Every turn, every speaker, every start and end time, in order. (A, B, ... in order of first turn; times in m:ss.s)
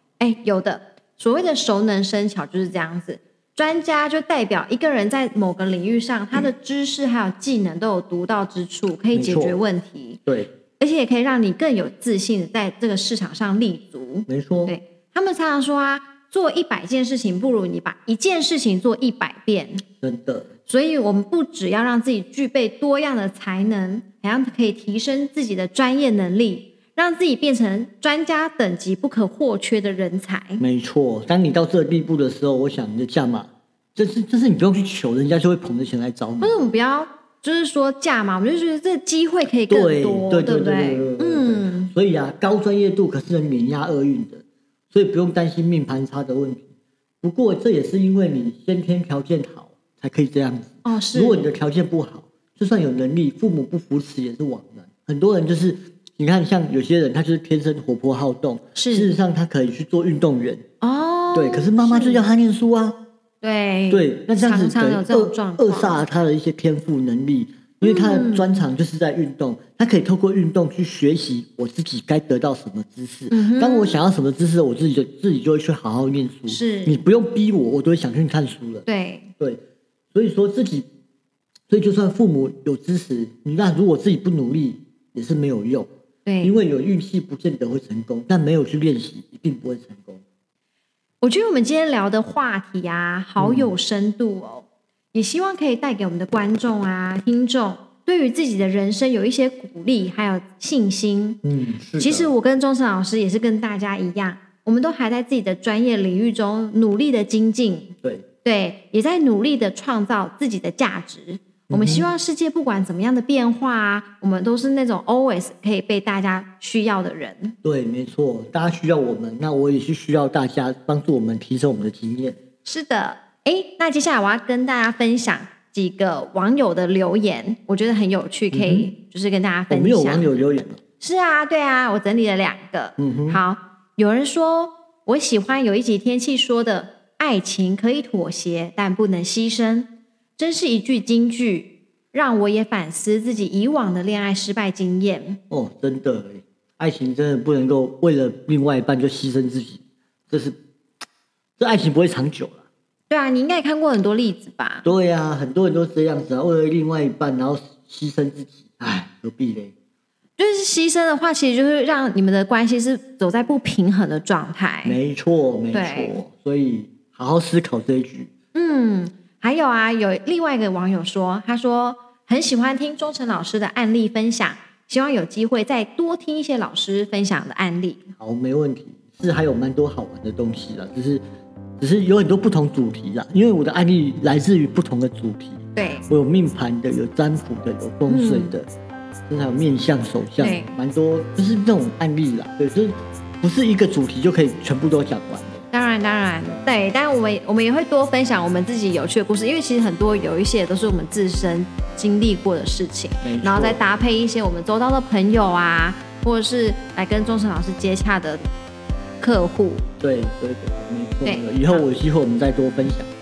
0:00.2-0:10.2 A
0:09.1-0:09.6 B
0:10.8-0:19.8 A
0:14.3-0:14.7 B
0:20.0-0:20.5 B
0:20.7-0:30.6 A
0:30.6-0:36.6 B
0:36.4-0:41.9 A
0:39.7-0:46.6 B
0:47.2-1:00.6 B
0:50.8-0:51.5 A
0:58.8-0:59.1 A
1:00.8-1:02.3 A
1:01.3-1:03.0 B
1:03.4-1:06.0 A
1:03.9-1:18.9 B
1:07.8-1:08.7 A
1:13.3-1:14.0 A
1:16.5-1:17.0 A
1:18.8-1:19.3 A
1:20.1-1:20.9 B
1:21.7-1:25.9 B
1:26.2-1:26.5 A
1:26.4-1:30.2 B
1:31.2-1:41.4 A
1:33.4-1:33.7 B
1:41.4-1:42.3 B
1:42.0-1:47.9 A
1:48.4-1:57.6 A
1:51.7-1:52.1 B
1:57.6-2:02.4 B
2:02.6-2:25.4 A
2:08.5-2:08.9 B
2:09.7-2:10.8 B
2:13.0-2:13.4 B
2:25.5-2:30.6 B
2:31.6-2:32.6 B
2:33.1-2:34.8 A
2:34.8-2:39.7 B
2:40.4-2:45.0 A
2:44.8-2:48.3 B
2:45.7-2:46.2 A
2:48.5-2:58.0 A
2:58.2-3:01.2 B
3:01.8-3:08.7 B
3:05.8-3:06.1 A
3:08.1-3:08.5 A
3:09.3-3:15.6 B
3:10.4-3:10.7 A
3:15.7-3:28.4 A
3:23.2-3:23.8 B
3:29.2-3:29.8 A
3:30.0-3:33.1 B
3:31.2-3:31.8 A